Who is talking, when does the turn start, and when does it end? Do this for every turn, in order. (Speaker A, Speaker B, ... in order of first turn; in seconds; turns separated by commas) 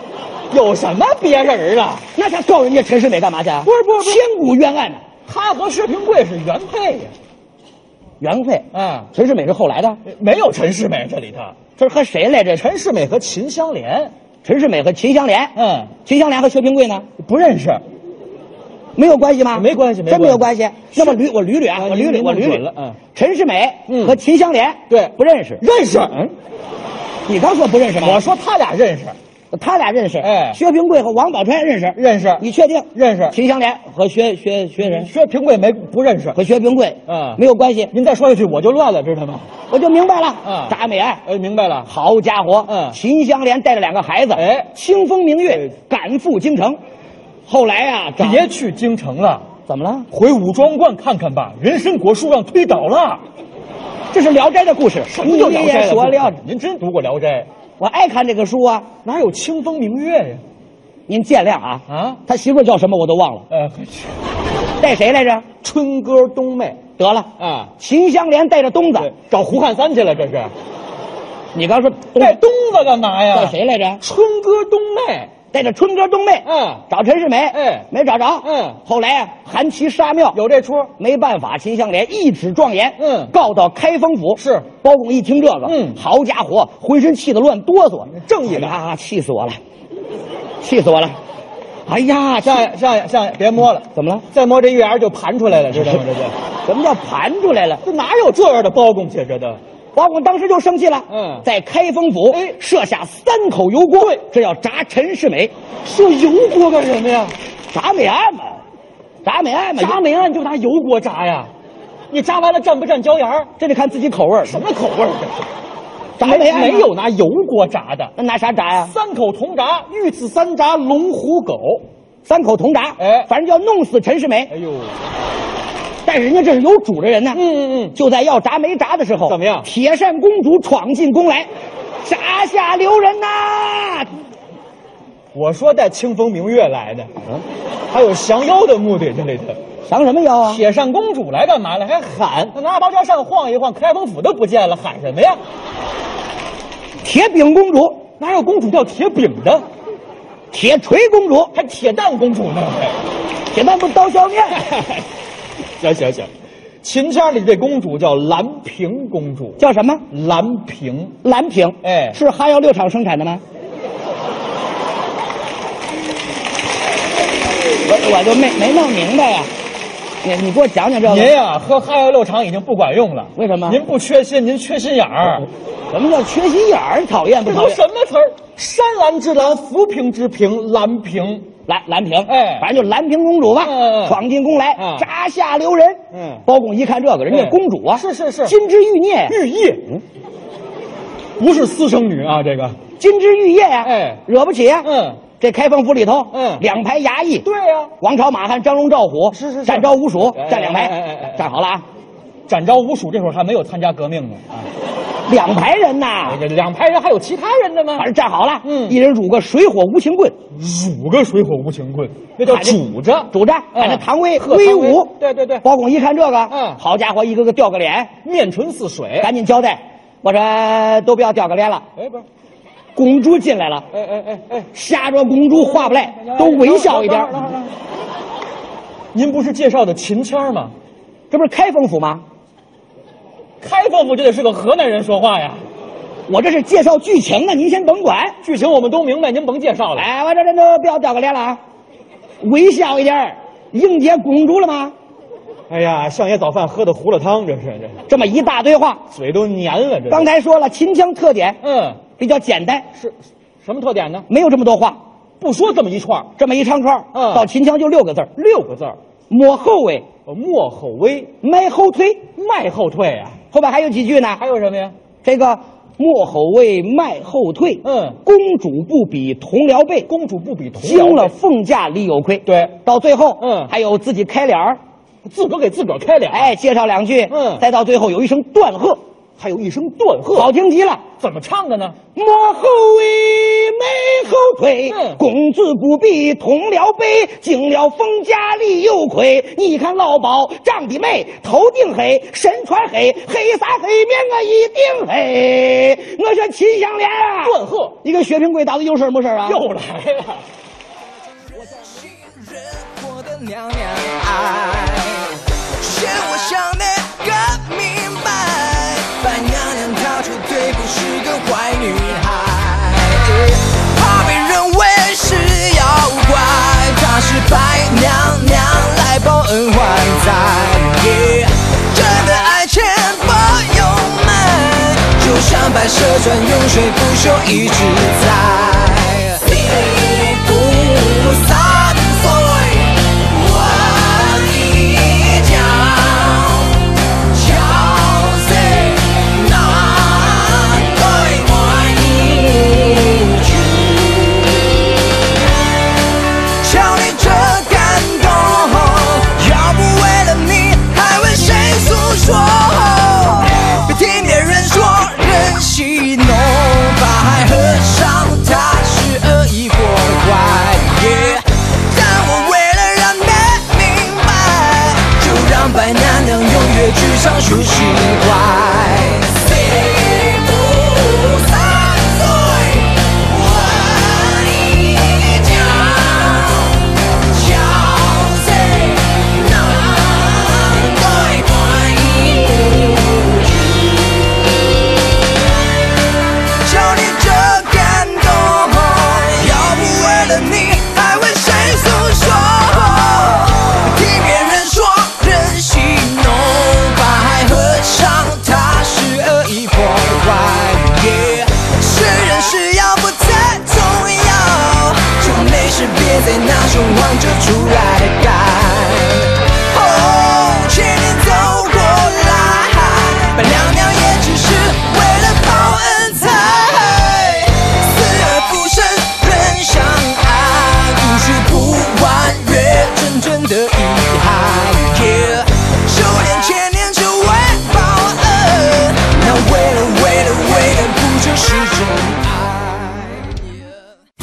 Speaker A: 0.5-2.0, Speaker B: 2.1-5.0, Speaker A: 3.6-4.2, Speaker A: 5.3-7.1, Speaker B: 8.2-10.0, Speaker A: 8.7-9.1, Speaker A: 10.1-11.6, Speaker B: 11.8-12.7, Speaker A: 12.6-14.1, Speaker B: 14.4-17.1, Speaker A: 15.6-15.9, Speaker A: 17.2-17.8, Speaker B: 19.0-22.6, Speaker A: 19.5-21.2, Speaker A: 21.7-23.0, Speaker B: 23.1-26.3, Speaker A: 23.9-24.2, Speaker A: 24.9-26.2, Speaker B: 27.3-28.2, Speaker A: 28.0-29.2, Speaker B: 29.5-35.1, Speaker A: 30.2-30.6, Speaker A: 32.0-32.4, Speaker A: 33.0-33.4, Speaker A: 34.8-36.4, Speaker B: 36.4-37.9, Speaker A: 37.1-37.4, Speaker A: 37.9-39.5, Speaker B: 39.7-41.2, Speaker A: 40.4-41.9, Speaker B: 41.9-46.8, Speaker A: 42.7-43.0, Speaker A: 44.4-44.7, Speaker A: 45.5-45.7, Speaker B: 47.5-48.5, Speaker A: 48.2-49.5, Speaker B: 49.7-50.1, Speaker A: 50.1-53.2, Speaker B: 54.1-56.4, Speaker A: 55.1-57.5, Speaker B: 57.8-58.9, Speaker A: 59.0-60.4, Speaker B: 61.1-63.5, Speaker A: 61.9-62.2, Speaker A: 63.5-64.2, Speaker B: 64.8-65.5, Speaker A: 65.6-66.8, Speaker B: 67.0-69.1, Speaker A: 67.4-67.7, Speaker A: 69.0-70.5, Speaker B: 71.5-72.4, Speaker A: 72.2-75.4, Speaker B: 73.3-74.0, Speaker B: 75.5-80.4, Speaker A: 76.5-76.8, Speaker A: 77.5-77.9, Speaker A: 78.4-78.8, Speaker A: 80.3-80.9, Speaker B: 81.0-89.6, Speaker A: 83.0-83.3, Speaker A: 84.4-84.7, Speaker A: 85.7-86.0, Speaker A: 88.1-88.8, Speaker B: 90.6-91.2, Speaker B: 91.9-92.7, Speaker A: 92.4-96.3, Speaker B: 93.9-94.3, Speaker B: 96.7-97.8, Speaker A: 97.8-99.6, Speaker B: 100.0-105.5, Speaker A: 101.1-101.5, Speaker A: 102.3-102.6, Speaker A: 104.0-104.2, Speaker A: 105.8-107.3, Speaker B: 107.7-108.6, Speaker B: 109.2-110.0, Speaker A: 109.8-111.5, Speaker A: 112.1-113.5, Speaker B: 113.6-114.6, Speaker A: 114.5-115.5, Speaker B: 116.2-116.9, Speaker A: 116.2-118.1, Speaker B: 118.2-118.9, Speaker A: 118.8-121.8, Speaker B: 122.2-124.5, Speaker A: 123.0-123.3, Speaker A: 124.5-124.9, Speaker B: 126.1-127.4, Speaker A: 127.3-128.0, Speaker B: 128.0-131.5, Speaker A: 129.3-129.7, Speaker B: 132.0-134.1, Speaker A: 135.3-137.1, Speaker A: 137.9-139.6, Speaker B: 139.9-140.6, Speaker A: 140.4-145.4, Speaker B: 147.0-148.1, Speaker A: 148.2-149.6, Speaker B: 150.5-151.5, Speaker A: 151.5-153.0, Speaker B: 153.5-154.7, Speaker A: 154.7-155.0, Speaker A: 155.8-156.3, Speaker A: 156.8-159.6, Speaker B: 159.6-160.0, Speaker A: 160.1-161.2, Speaker B: 161.2-163.4, Speaker A: 161.8-162.2, Speaker B: 167.9-169.5, Speaker B: 170.2-171.3, Speaker A: 171.0-175.4, Speaker B: 173.4-173.8, Speaker B: 175.9-177.8, Speaker A: 177.4-181.5, Speaker B: 181.7-189.4, Speaker A: 182.3-182.7, Speaker A: 183.6-184.2, Speaker A: 184.8-185.1, Speaker A: 186.1-186.4, Speaker A: 187.3-188.5, Speaker A: 189.3-189.9, Speaker A: 191.4-192.8, Speaker B: 193.0-197.5, Speaker A: 193.8-194.2, Speaker A: 194.8-195.2, Speaker A: 196.3-196.6, Speaker A: 197.4-197.9, Speaker B: 198.0-201.8, Speaker A: 199.3-201.5, Speaker A: 202.5-204.7, Speaker B: 205.3-206.4, Speaker A: 206.3-208.1, Speaker B: 208.0-210.4, Speaker A: 208.6-209.0, Speaker A: 210.5-215.6, Speaker B: 212.4-218.1, Speaker A: 216.5-216.8, Speaker A: 218.2-219.3, Speaker B: 219.2-221.8, Speaker A: 222.0-222.2, Speaker B: 223.0-223.9, Speaker A: 223.9-224.7, Speaker B: 224.7-227.4, Speaker A: 225.5-227.7, Speaker A: 229.1-230.7, Speaker B: 231.3-232.2, Speaker A: 233.6-235.6, Speaker B: 236.3-238.4, Speaker A: 238.4-240.1, Speaker B: 239.9-241.6, Speaker B: 242.4-244.9, Speaker A: 245.7-248.0, Speaker B: 248.1-249.0, Speaker A: 249.1-250.3, Speaker B: 250.1-251.6, Speaker A: 251.6-252.0, Speaker B: 252.1-252.9, Speaker A: 252.9-254.3, Speaker B: 254.3-255.0, Speaker A: 255.4-256.3, Speaker B: 256.4-258.3, Speaker A: 257.1-257.5, Speaker A: 258.4-259.0, Speaker B: 259.3-260.1, Speaker A: 260.3-261.3, Speaker B: 261.4-262.3, Speaker A: 262.4-263.4, Speaker B: 263.5-264.4, Speaker A: 264.4-264.9, Speaker B: 265.2-270.1, Speaker A: 267.8-268.2, Speaker A: 270.1-271.3, Speaker B: 270.8-274.8, Speaker A: 272.5-272.8, Speaker A: 273.4-273.7, Speaker A: 275.2-276.5, Speaker B: 276.3-279.0, Speaker A: 277.3-277.6, Speaker A: 279.4-280.5, Speaker B: 280.3-281.0, Speaker A: 281.2-282.0, Speaker B: 282.1-299.6, Speaker A: 284.9-285.2, Speaker A: 297.4-298.0, Speaker A: 299.4-300.4, Speaker C: 301.5-336.8, Speaker C: 337.3-344.8, Speaker C: 346.6-383.9, Speaker C: 386.6-433.4